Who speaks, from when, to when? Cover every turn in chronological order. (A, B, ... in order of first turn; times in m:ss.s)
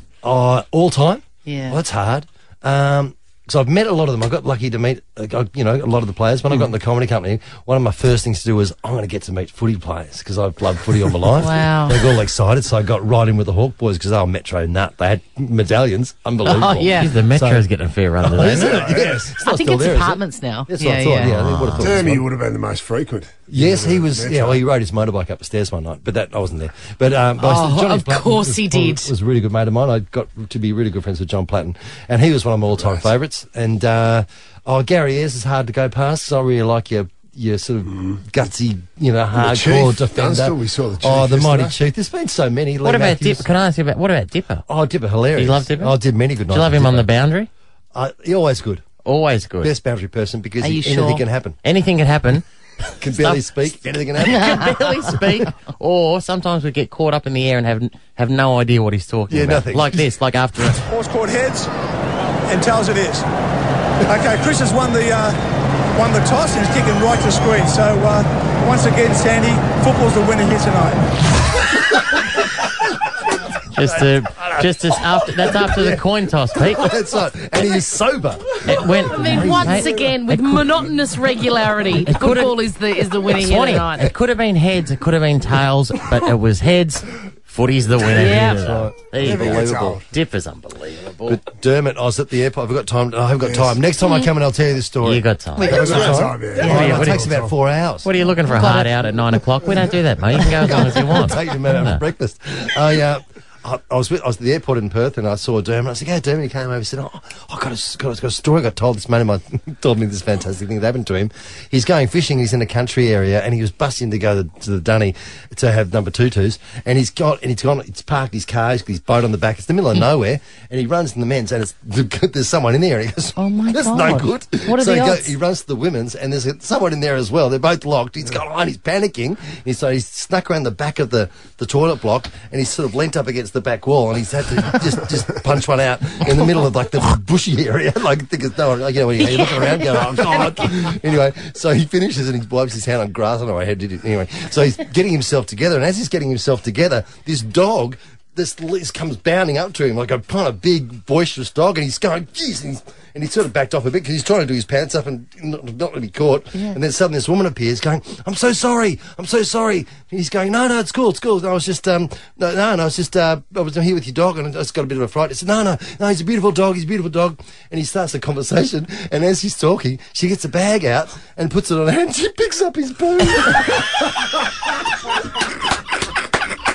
0:00.2-0:17.7 A
0:01.4-0:01.8 B
0:11.4-0:12.1 B
0:16.4-0:17.1 B
0:16.8-0:18.7 C
0:18.2-0:22.2 A
0:18.3-0:19.3 D
0:19.4-0:21.4 B
0:21.2-0:21.9 C
0:21.8-0:24.6 D
0:23.5-0:43.5 A
0:27.4-0:29.1 B
0:32.7-0:33.1 D
0:39.3-0:41.8 D
0:42.8-0:44.6 C
0:44.7-0:47.1 A
0:45.3-0:45.9 C
0:46.5-0:47.5 C
0:47.9-0:48.8 A
0:49.0-0:49.7 C
0:49.6-0:51.6 A
0:50.6-0:51.2 B
0:51.6-0:52.4 C
0:53.0-0:54.8 A
0:53.1-1:00.8 C
0:59.3-1:00.1 A
1:00.8-1:01.7 E
1:02.5-1:03.2 E
1:04.0-1:05.4 E
1:06.0-1:11.0 E
1:13.7-1:17.0 C
1:13.8-1:20.1 A
1:18.6-1:20.6 C
1:19.0-1:24.1 B
1:21.9-1:22.5 C
1:23.4-1:31.4 C
1:28.1-1:28.7 B
1:28.4-1:30.0 A
1:29.2-1:30.1 D
1:31.2-1:38.1 A
1:33.4-1:33.8 D
1:35.0-1:35.8 C
1:35.6-1:36.9 B
1:35.7-1:37.5 D
1:36.6-1:37.3 C
1:38.0-1:42.0 C
1:38.4-1:39.0 B
1:40.3-2:54.3 A
2:03.4-2:05.3 B